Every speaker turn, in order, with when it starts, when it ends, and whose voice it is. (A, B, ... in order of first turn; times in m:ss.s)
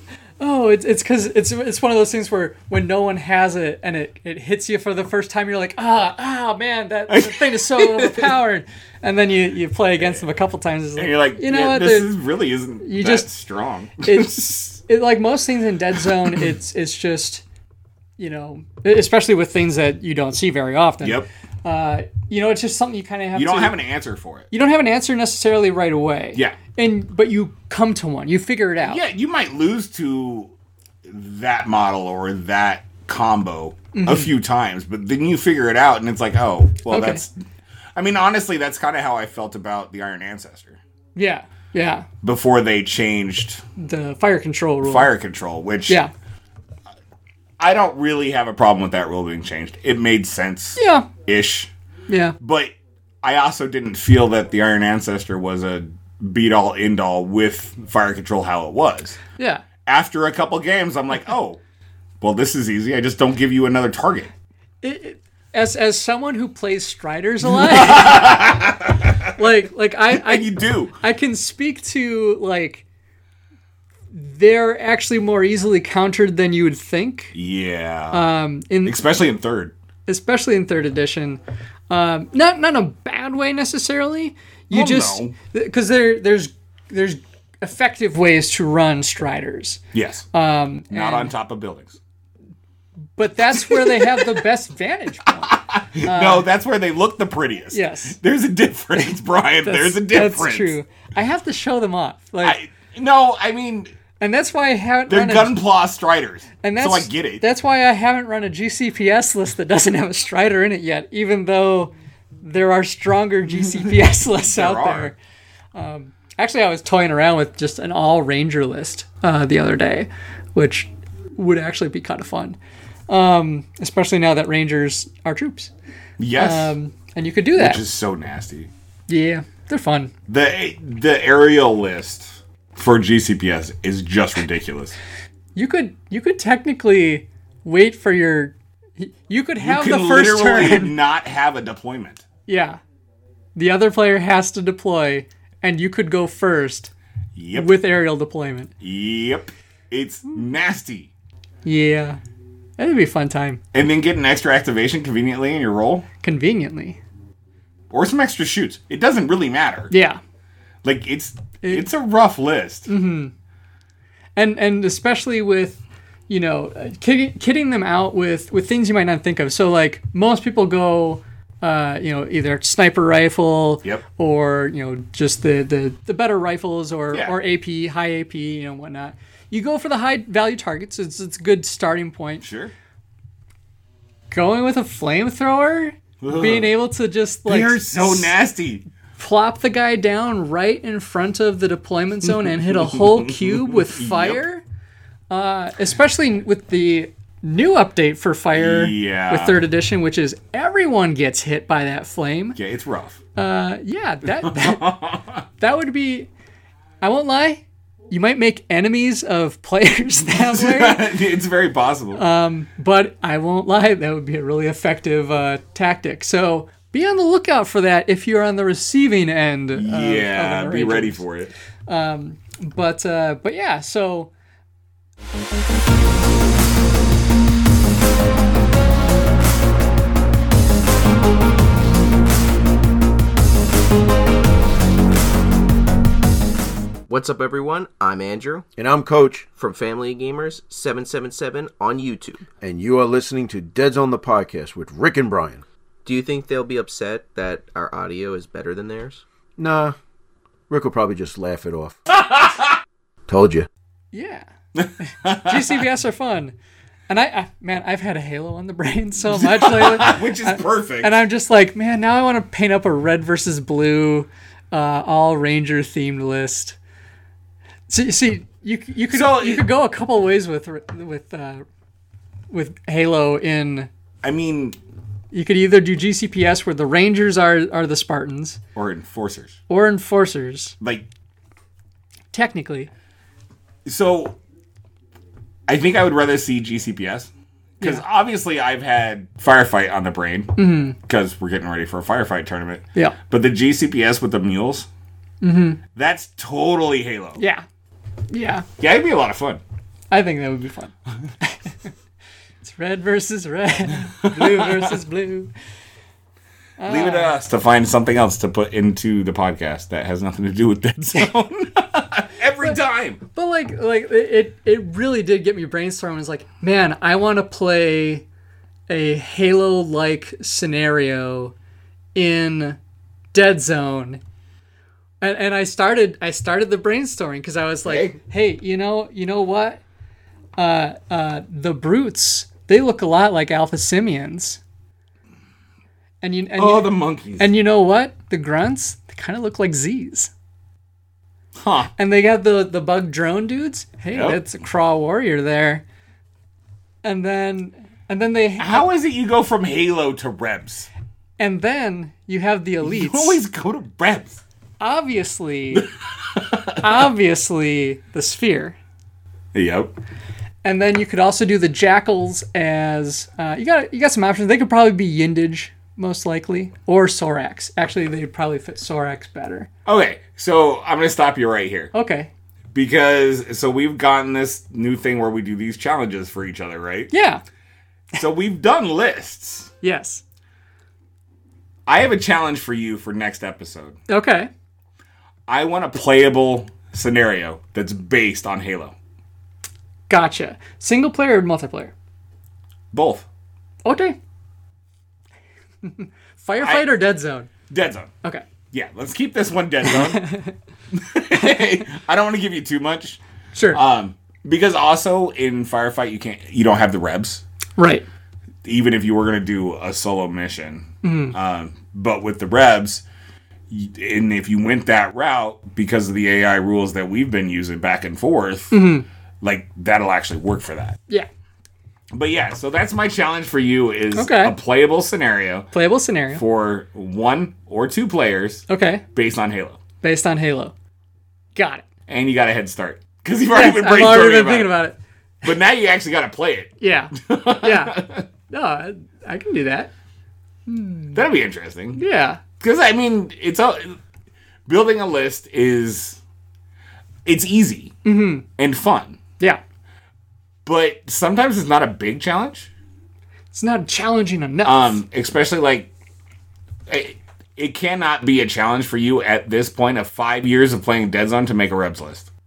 0:00.4-0:12.1 A
0:07.1-0:08.4 B
0:10.0-0:10.2 B
0:11.0-0:14.4 B
0:12.8-0:13.3 A
0:14.0-0:17.4 A
0:16.2-0:16.5 B
0:18.2-0:23.8 A
0:21.0-0:21.3 B
0:23.4-0:24.5 B
0:24.5-0:29.0 A
0:28.8-0:30.5 B
0:31.1-0:37.3 B
0:33.9-0:34.3 A
0:36.9-0:37.2 A
0:38.0-0:40.8 B
0:41.2-0:42.1 A
0:42.2-0:43.6 B
0:43.8-0:45.1 A
0:44.8-0:46.0 B
0:47.6-0:51.7 B
0:50.8-0:51.1 A
0:52.1-0:52.3 A
0:52.4-0:59.2 B
0:59.4-0:59.6 A
0:59.9-1:01.6 B
1:02.2-1:04.3 B
1:04.8-1:08.2 A
1:07.5-1:09.4 B
1:09.4-1:12.8 A
1:10.1-1:11.0 B
1:14.1-1:17.3 A
1:17.3-1:18.2 B
1:18.1-1:19.0 A
1:18.8-1:19.7 B
1:20.1-1:29.8 A
1:24.7-1:25.3 B
1:29.9-1:30.3 B
1:30.3-1:31.3 A
1:30.9-1:32.0 B
1:33.2-1:36.5 A
1:33.5-1:34.3 B
1:35.4-1:40.8 B
1:37.7-1:38.2 A
1:39.6-1:42.6 A
1:42.4-1:43.9 B
1:44.2-1:45.6 A
1:45.1-1:47.4 B
1:46.6-1:55.2 A
1:53.5-1:55.1 B
1:55.8-2:02.6 A
2:03.1-2:05.7 A
2:06.2-2:06.8 B
2:06.4-2:07.8 A
2:07.6-2:08.7 B
2:09.1-2:10.1 A
2:10.3-2:15.0 B
2:15.6-2:20.9 A
2:19.6-2:22.3 B
2:22.5-2:22.8 A
2:23.6-2:26.9 A
2:27.4-2:27.7 B
2:27.5-2:28.7 A
2:28.8-2:31.1 B
2:31.6-2:32.2 A
2:32.8-2:33.6 A
2:33.7-2:36.1 B
2:36.2-2:37.0 A
2:37.9-2:39.9 B
2:39.9-2:40.2 A
2:40.8-2:42.9 B
2:41.6-2:41.9 A
2:42.9-2:43.3 A
2:44.4-3:02.5 A
3:02.4-3:02.7 B
3:04.3-3:08.3 A
3:06.2-3:06.7 B
3:07.5-3:08.8 B
3:09.2-3:14.6 A
3:12.5-3:14.4 B
3:15.3-3:22.6 A
3:18.6-3:19.6 B
3:22.6-3:23.2 B
3:23.4-3:25.0 A
3:24.4-3:25.4 B
3:25.6-3:26.3 A
3:27.0-3:31.0 A
3:30.4-3:32.2 B
3:32.2-3:41.2 A
3:39.8-3:41.5 B
3:41.9-3:44.3 A
3:57.1-3:58.7 C
3:58.8-3:59.5 D
3:59.5-4:02.5 C
4:02.6-4:05.6 D
4:06.0-4:09.2 C
4:09.6-4:10.0 D
4:10.7-4:12.0 D
4:12.1-4:12.8 B
4:13.3-4:13.7 D
4:14.1-4:14.5 A
4:14.8-4:15.8 B
4:15.0-4:16.6 A
4:17.1-4:26.8 A
4:19.3-4:21.1 B
4:27.9-4:31.6 A
4:29.1-4:29.7 B
4:32.5-4:33.9 A
4:34.2-4:34.8 B
4:35.3-4:38.6 A
4:38.8-4:39.6 B
4:39.7-4:40.7 A
4:40.8-4:41.1 B
4:42.3-4:42.9 A
4:43.8-4:44.4 B
4:45.7-4:54.9 B
4:50.6-4:51.0 A
4:55.4-4:55.8 A
4:56.0-4:57.4 B
4:57.4-4:57.6 A
4:58.3-4:58.7 A
4:58.8-4:59.6 B
5:00.1-5:01.7 A
5:02.6-5:05.5 A
5:04.2-5:05.0 B
5:06.8-5:07.3 A
5:06.9-5:13.2 B
5:13.3-5:18.2 A
5:18.9-5:21.5 A
5:22.2-5:22.8 A
5:23.3-5:24.2 A
5:25.2-5:29.8 A
5:27.9-5:28.2 B
5:30.6-5:34.6 A
5:36.2-5:40.3 A
5:36.6-5:37.5 B
5:41.6-5:41.9 B
5:42.0-5:45.8 A
5:44.1-5:44.4 B
5:47.0-5:48.9 A
5:48.6-5:50.9 B
5:51.4-5:53.4 A
5:52.8-5:54.4 B
5:54.8-5:55.9 A
5:55.8-5:56.8 B
5:56.8-5:58.8 A
5:59.5-5:59.9 B
6:00.6-6:09.7 A
6:09.9-6:11.9 B
6:11.9-6:12.3 A
6:12.7-6:17.1 B
6:17.1-6:17.4 A
6:18.2-6:19.7 B
6:19.8-6:20.2 A
6:21.9-6:24.0 B
6:24.1-6:24.5 A
6:25.5-6:29.0 B
6:30.1-6:31.9 A
6:32.9-6:33.3 B
6:33.8-6:34.2 A
6:35.8-6:37.5 A
6:36.6-6:36.9 B
6:37.7-6:38.1 B
6:38.7-6:40.3 B
6:39.8-6:40.5 A
6:40.9-6:43.2 B
6:43.6-6:43.8 A
6:43.7-6:47.4 B
6:47.8-6:48.0 A
6:48.6-6:53.0 B
6:51.0-6:51.4 A
6:53.7-6:58.8 B
6:58.7-6:59.1 A
6:59.4-7:01.0 B
7:02.1-7:05.7 B
7:04.1-7:04.6 A
7:05.7-7:06.4 A
7:06.3-7:09.8 B
7:08.7-7:09.0 A
7:10.0-7:10.7 A
7:11.6-7:11.9 A
7:12.1-7:14.8 B
7:13.5-7:15.0 A
7:15.4-7:18.3 B
7:16.8-7:19.9 A
7:20.7-7:21.2 A
7:21.2-7:22.0 B
7:22.0-7:22.4 A
7:22.6-7:24.0 B
7:24.7-7:26.2 B
7:27.2-7:28.0 B
7:28.0-7:28.4 A
7:28.6-7:29.2 B
7:30.7-7:32.7 B
7:33.5-7:35.0 A
7:34.6-7:35.9 B
7:36.9-7:42.3 B